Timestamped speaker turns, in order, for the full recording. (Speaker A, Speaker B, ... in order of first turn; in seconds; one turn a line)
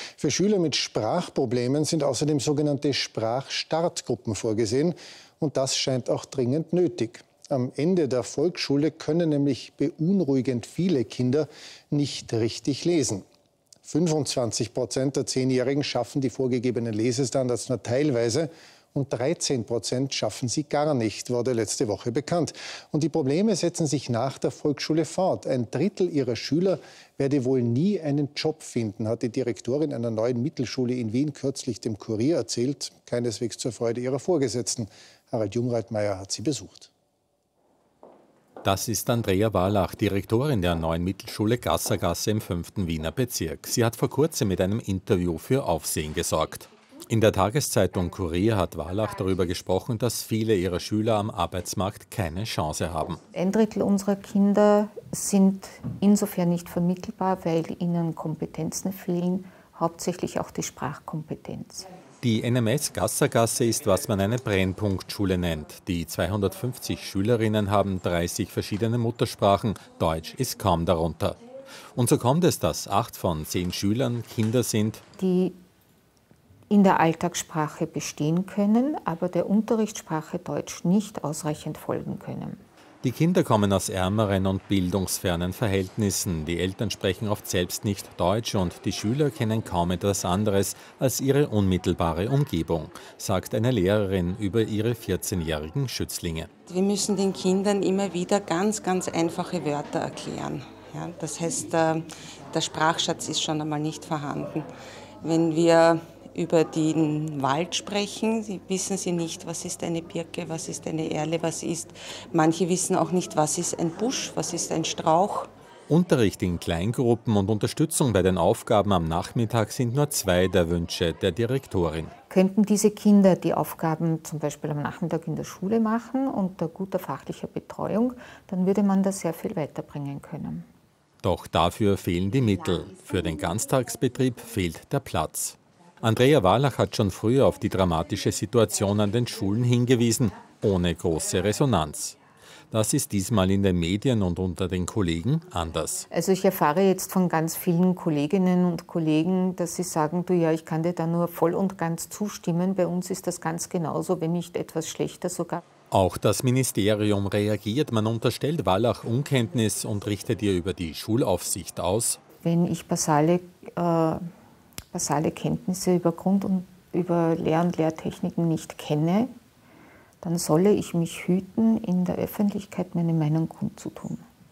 Speaker A: 0.2-13.2
Speaker A: 13.8-36.9
Speaker B: 38.6-53.2
Speaker C: 53.3-61.9
Speaker B: 62.2-71.4
Speaker B: 72.0-75.0
Speaker C: 75.2-75.6
Speaker C: 76.7-82.6
Speaker B: 83.0-96.5
Speaker D: 96.7-104.7
Speaker D: 105.2-115.5
Speaker B: 115.9-122.1
Speaker C: 122.3-130.7
Speaker B: 131.2-142.2
Speaker B: 142.7-146.1
Speaker C: 146.1-155.6
Speaker B: 155.9-162.2
Speaker C: 162.4-164.2
Speaker C: 164.9-169.3
Speaker C: 170.2-174.2